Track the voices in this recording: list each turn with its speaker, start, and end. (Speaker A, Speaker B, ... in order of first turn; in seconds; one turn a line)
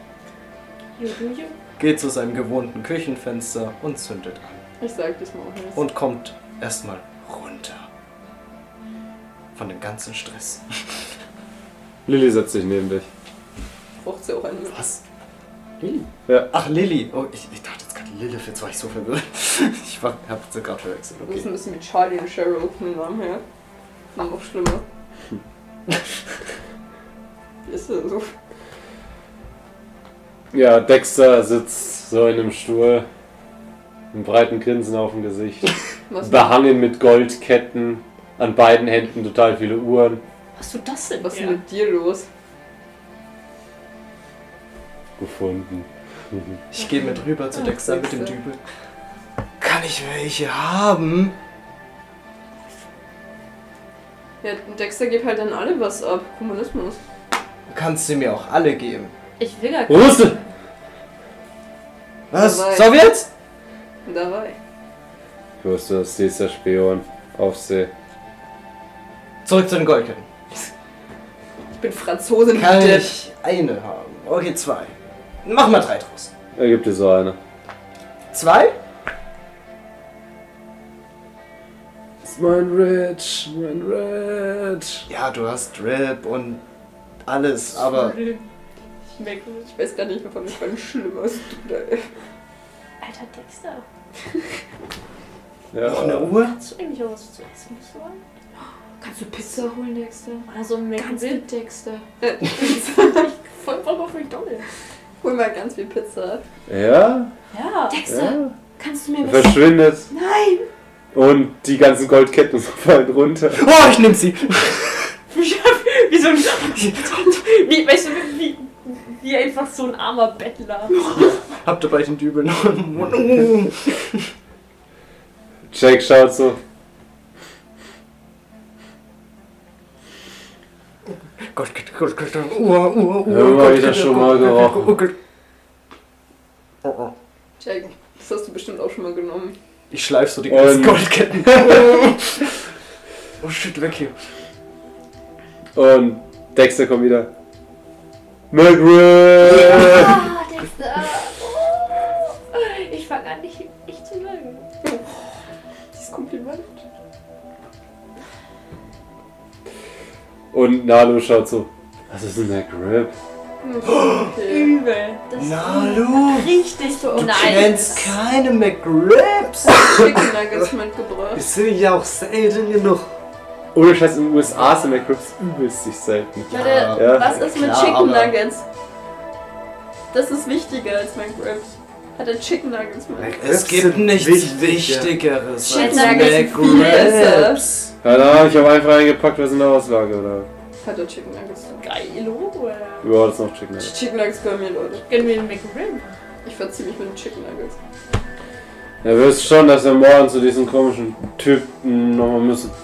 Speaker A: 1.0-1.6
Speaker B: 1.8-4.6
Speaker C: 4.8-5.9
Speaker B: 5.8-7.9
Speaker B: 9.6-10.8
Speaker D: 12.1-13.1
Speaker C: 14.0-14.8
Speaker B: 14.7-15.0
Speaker B: 15.8-21.5
Speaker C: 21.3-23.4
Speaker C: 24.1-24.8
Speaker C: 27.7-28.3
Speaker D: 30.5-33.1
Speaker D: 34.1-40.2
Speaker C: 36.1-36.6
Speaker A: 40.6-41.6
Speaker C: 41.2-42.3
Speaker D: 45.2-46.6
Speaker B: 46.7-48.6
Speaker C: 47.6-48.4
Speaker B: 49.6-51.4
Speaker C: 54.4-57.0
Speaker B: 57.7-59.1
Speaker A: 59.4-60.5
Speaker D: 59.9-60.4
Speaker B: 62.3-63.3
Speaker C: 62.3-63.0
Speaker C: 64.0-64.6
Speaker D: 65.6-67.9
Speaker B: 69.5-70.3
Speaker C: 71.8-73.2
Speaker B: 72.5-76.3
Speaker D: 76.6-77.4
Speaker B: 78.3-78.8
Speaker D: 82.2-85.1
Speaker B: 85.1-86.6
Speaker B: 87.3-88.2
Speaker A: 87.8-88.4
Speaker A: 89.2-89.7
Speaker C: 89.7-92.1
Speaker A: 93.0-93.8
Speaker D: 95.7-96.3
Speaker B: 95.8-96.5
Speaker A: 96.4-98.2
Speaker C: 99.0-103.3
Speaker A: 100.5-101.5
Speaker A: 102.6-104.7
Speaker C: 105.2-106.4
Speaker D: 106.7-107.3
Speaker A: 107.5-108.0
Speaker C: 107.9-110.7
Speaker D: 108.1-108.5
Speaker D: 109.2-110.1
Speaker D: 111.1-113.7
Speaker B: 113.5-115.1
Speaker A: 115.3-121.1
Speaker B: 121.5-124.3
Speaker D: 125.7-126.6
Speaker B: 131.5-135.2
Speaker D: 133.3-134.9
Speaker B: 136.8-137.1
Speaker C: 137.6-139.6
Speaker B: 139.9-142.5
Speaker D: 140.5-142.0
Speaker B: 143.4-144.2
Speaker D: 145.8-147.3
Speaker D: 148.5-150.2
Speaker A: 149.8-154.7
Speaker C: 154.8-155.2
Speaker C: 155.9-156.8
Speaker D: 160.5-163.1
Speaker C: 163.6-164.8
Speaker B: 163.9-164.2
Speaker A: 164.4-168.1
Speaker B: 165.4-166.6
Speaker C: 166.8-168.0
Speaker B: 167.2-170.0
Speaker C: 169.6-171.4
Speaker E: 171.3-173.1
Speaker D: 173.7-177.4
Speaker B: 176.5-178.4
Speaker A: 176.5-176.9
Speaker C: 176.8-178.6
Speaker C: 180.1-183.4
Speaker E: 183.2-185.2
Speaker B: 183.4-187.9
Speaker C: 185.6-187.7
Speaker A: 185.7-187.2
Speaker D: 188.0-190.5
Speaker C: 190.8-191.8
Speaker A: 191.8-193.1
Speaker D: 193.0-193.9
Speaker C: 193.8-195.1
Speaker A: 195.1-196.2
Speaker C: 196.4-197.8
Speaker D: 199.0-202.7